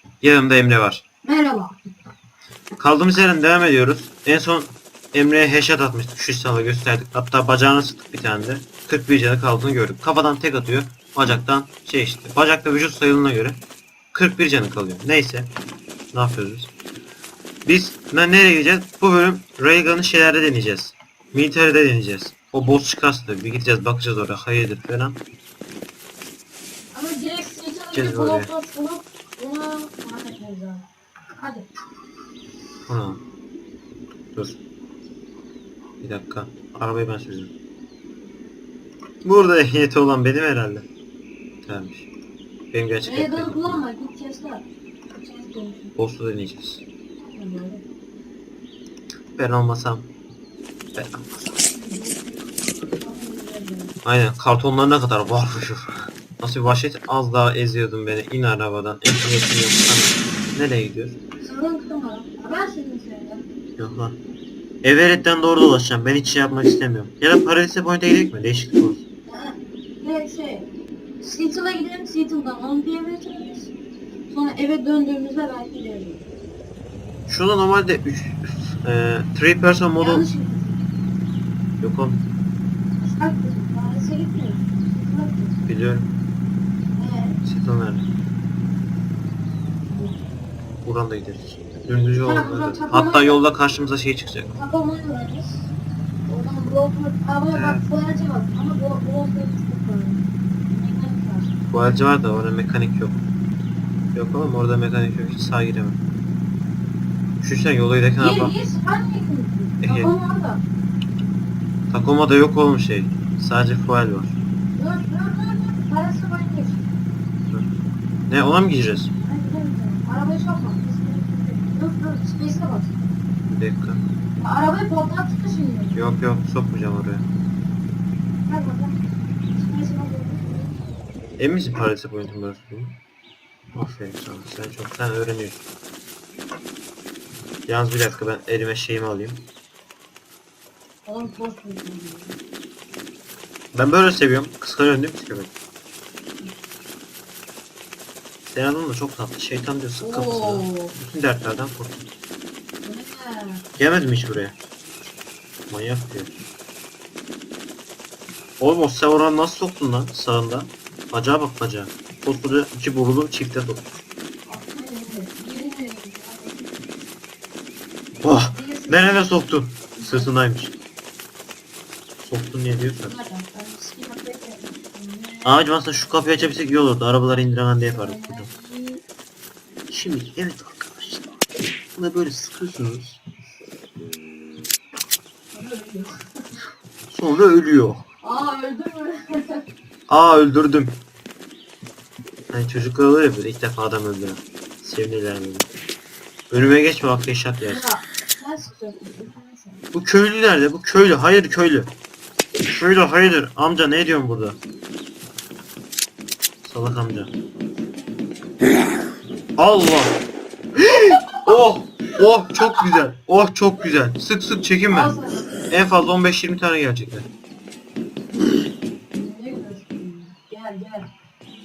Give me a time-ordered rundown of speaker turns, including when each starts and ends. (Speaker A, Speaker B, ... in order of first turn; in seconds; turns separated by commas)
Speaker A: 0.2-1.0, Speaker B: 1.2-1.8, Speaker A: 2.8-13.6, Speaker A: 14.1-15.5, Speaker A: 16.1-16.7, Speaker A: 17.7-25.2, Speaker B: 26.9-30.9, Speaker A: 27.9-28.5, Speaker B: 31.4-31.7, Speaker A: 32.9-33.2, Speaker A: 36.0-37.5, Speaker A: 39.2-40.9, Speaker A: 41.6-42.1, Speaker A: 42.7-43.9, Speaker B: 43.0-45.9, Speaker A: 46.0-46.8, Speaker B: 47.3-47.8, Speaker A: 49.4-50.1, Speaker A: 51.0-51.5, Speaker B: 51.7-54.0, Speaker A: 54.0-61.2, Speaker B: 61.4-63.5, Speaker A: 63.8-64.2, Speaker A: 64.8-69.0, Speaker B: 69.3-70.7, Speaker B: 71.2-73.7, Speaker B: 74.3-76.3, Speaker A: 77.3-80.3, Speaker B: 80.0-80.9, Speaker A: 81.8-82.2, Speaker B: 83.0-85.6, Speaker A: 85.7-86.1, Speaker B: 86.9-87.4, Speaker A: 87.4-88.1, Speaker B: 89.9-90.2, Speaker A: 90.8-94.5, Speaker B: 92.2-93.4, Speaker B: 94.5-95.7, Speaker B: 96.3-101.6, Speaker A: 97.5-97.9, Speaker A: 101.7-103.2, Speaker A: 104.1-106.0, Speaker A: 107.4-108.5, Speaker B: 108.2-110.6, Speaker A: 109.8-110.1, Speaker A: 111.9-114.4, Speaker B: 114.8-116.9, Speaker A: 118.3-119.1, Speaker B: 119.2-122.9, Speaker A: 123.5-124.0, Speaker B: 124.4-126.0, Speaker A: 126.0-127.3, Speaker B: 128.5-129.0, Speaker B: 129.5-130.8, Speaker A: 131.4-133.0, Speaker A: 133.7-135.7, Speaker A: 137.7-139.4, Speaker B: 141.1-142.4, Speaker A: 143.7-145.5, Speaker A: 148.5-152.1, Speaker B: 150.0-150.9, Speaker B: 152.8-153.7, Speaker A: 153.8-154.6, Speaker A: 155.7-156.4, Speaker A: 158.6-164.0, Speaker B: 164.5-166.8, Speaker A: 168.2-170.7, Speaker B: 168.4-169.4, Speaker B: 170.0-170.3, Speaker A: 172.2-173.2, Speaker B: 173.1-175.6, Speaker A: 175.4-178.5, Speaker B: 177.8-179.0, Speaker A: 179.9-181.4, Speaker A: 181.9-183.2, Speaker B: 185.5-186.1, Speaker A: 187.1-188.0, Speaker B: 188.2-189.6, Speaker A: 190.1-191.0, Speaker A: 192.5-195.7, Speaker A: 196.5-197.9, Speaker B: 197.7-199.8, Speaker A: 199.9-201.9, Speaker A: 202.7-204.6, Speaker A: 206.6-207.3, Speaker A: 209.6-210.2, Speaker A: 210.8-215.2, Speaker B: 211.1-211.6, Speaker B: 212.3-213.0, Speaker B: 214.9-215.7, Speaker A: 215.7-217.3, Speaker B: 219.1-221.1